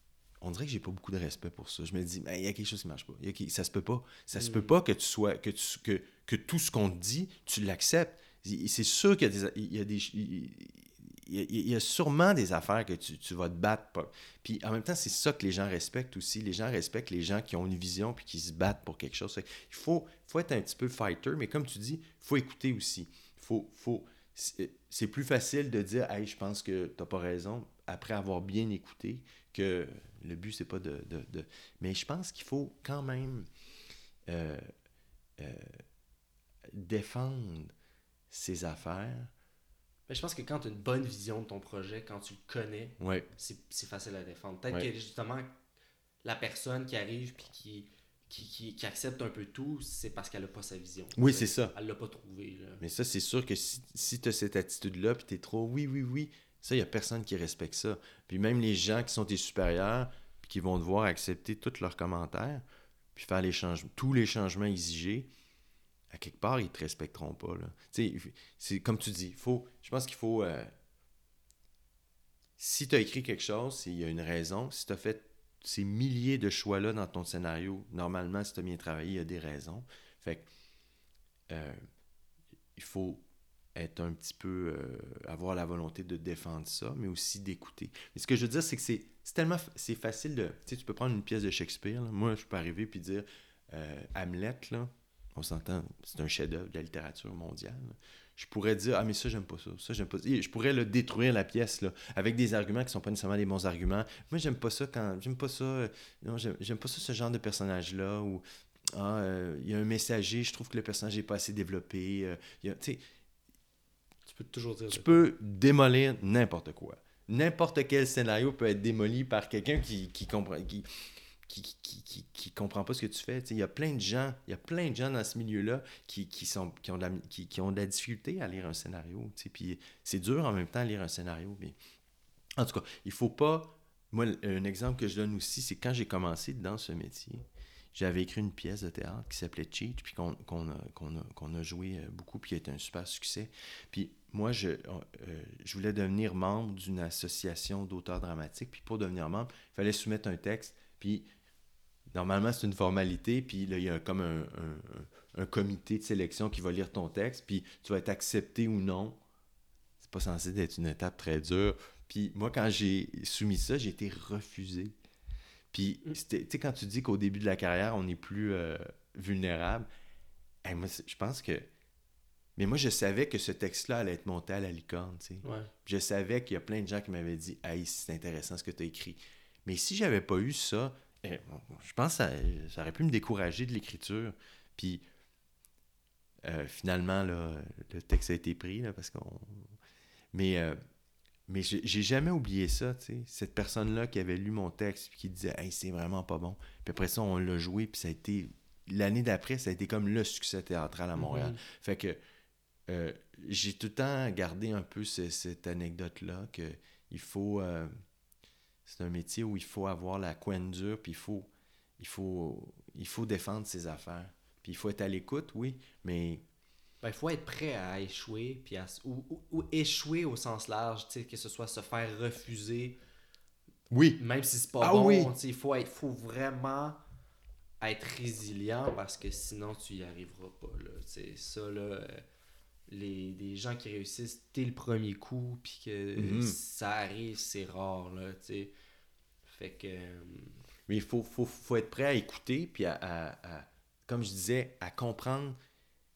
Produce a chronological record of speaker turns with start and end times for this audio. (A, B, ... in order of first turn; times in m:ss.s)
0:00.4-0:33.5 A
0:04.4-0:04.8 B
0:34.3-0:34.6 A
0:35.4-0:35.7 A
0:36.7-0:37.7 A
0:38.3-0:39.3 A
0:40.1-0:45.5 B
0:43.0-0:43.3 A
0:46.2-0:52.8 B
0:51.1-0:51.7 A
0:52.8-1:02.6 A
1:03.1-1:05.3 A
1:06.1-1:10.7 A
1:12.6-1:20.5 A
1:21.5-1:21.8 A
1:22.8-1:23.2 A
1:23.7-1:53.0 A
1:54.3-1:55.2 B
1:54.9-2:11.8 A
2:12.6-2:31.3 A
2:32.1-2:39.2 A
2:40.0-2:44.9 A
2:45.7-2:49.9 A
2:50.6-2:51.7 A
2:52.6-3:05.0 A
2:55.4-2:55.7 B
3:06.4-3:09.7 A
3:10.3-3:10.8 A
3:11.5-3:22.2 A
3:21.2-3:21.6 B
3:22.9-3:27.9 A
3:28.8-3:36.4 A
3:37.0-3:43.0 B
3:43.9-3:44.2 A
3:44.2-3:47.0 B
3:44.8-3:45.3 A
3:47.8-3:52.2 B
3:52.9-3:58.7 B
3:56.2-3:56.6 A
3:59.4-4:00.6 B
4:00.9-4:05.6 A